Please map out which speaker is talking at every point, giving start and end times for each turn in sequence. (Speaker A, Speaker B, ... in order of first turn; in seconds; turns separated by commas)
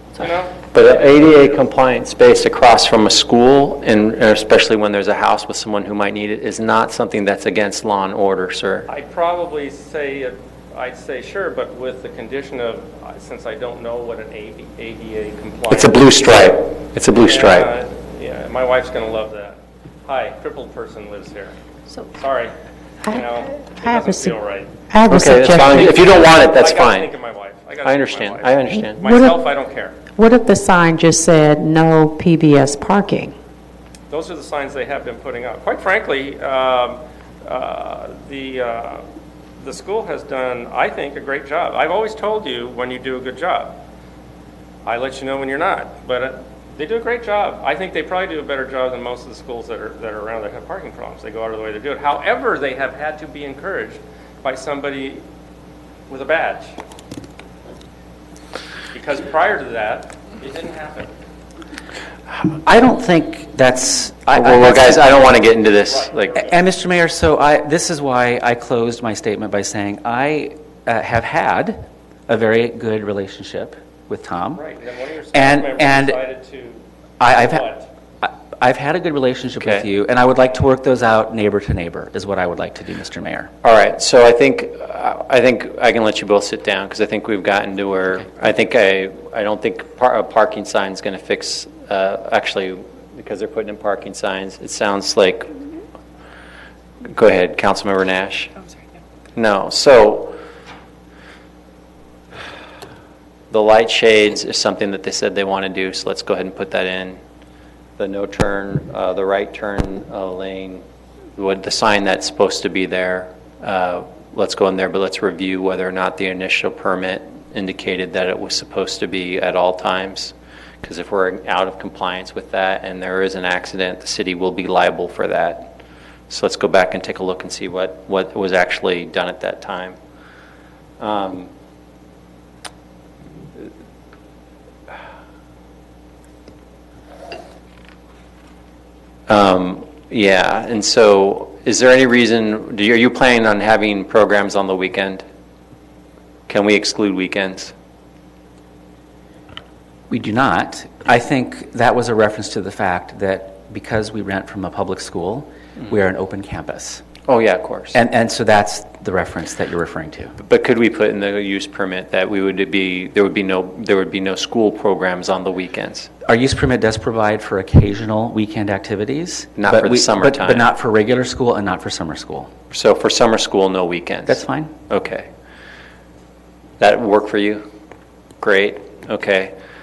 Speaker A: 0.2-1.7, Speaker B: 0.7-8.9, Speaker A: 8.9-16.0, Speaker B: 15.7-17.7, Speaker A: 17.2-21.6, Speaker A: 22.1-22.6, Speaker C: 23.1-24.3, Speaker A: 23.1-24.8, Speaker C: 24.9-26.1, Speaker B: 25.1-27.1, Speaker A: 25.6-30.0, Speaker B: 27.8-29.0, Speaker C: 28.8-29.4, Speaker C: 30.1-33.3, Speaker A: 34.1-39.1, Speaker A: 39.6-43.8, Speaker A: 44.9-55.2, Speaker A: 56.1-56.8, Speaker A: 58.9-61.1, Speaker D: 62.5-65.3, Speaker B: 64.3-66.5, Speaker A: 65.8-66.6, Speaker D: 66.4-74.6, Speaker A: 74.5-77.9, Speaker D: 75.3-76.2, Speaker D: 77.2-77.7, Speaker D: 78.2-83.5, Speaker B: 79.6-79.9, Speaker B: 83.6-95.6, Speaker B: 97.1-98.5, Speaker B: 99.3-100.3, Speaker B: 103.5-107.2, Speaker B: 108.0-110.8, Speaker B: 111.4-125.8, Speaker B: 126.3-130.0, Speaker B: 131.0-131.5, Speaker B: 139.3-145.2, Speaker B: 146.5-147.7, Speaker D: 150.1-157.1, Speaker B: 157.3-158.0, Speaker D: 157.9-160.4, Speaker B: 160.4-166.1, Speaker D: 166.3-172.5, Speaker B: 169.6-170.7, Speaker B: 172.7-175.3, Speaker D: 174.3-174.7, Speaker B: 176.8-177.6, Speaker B: 178.4-179.5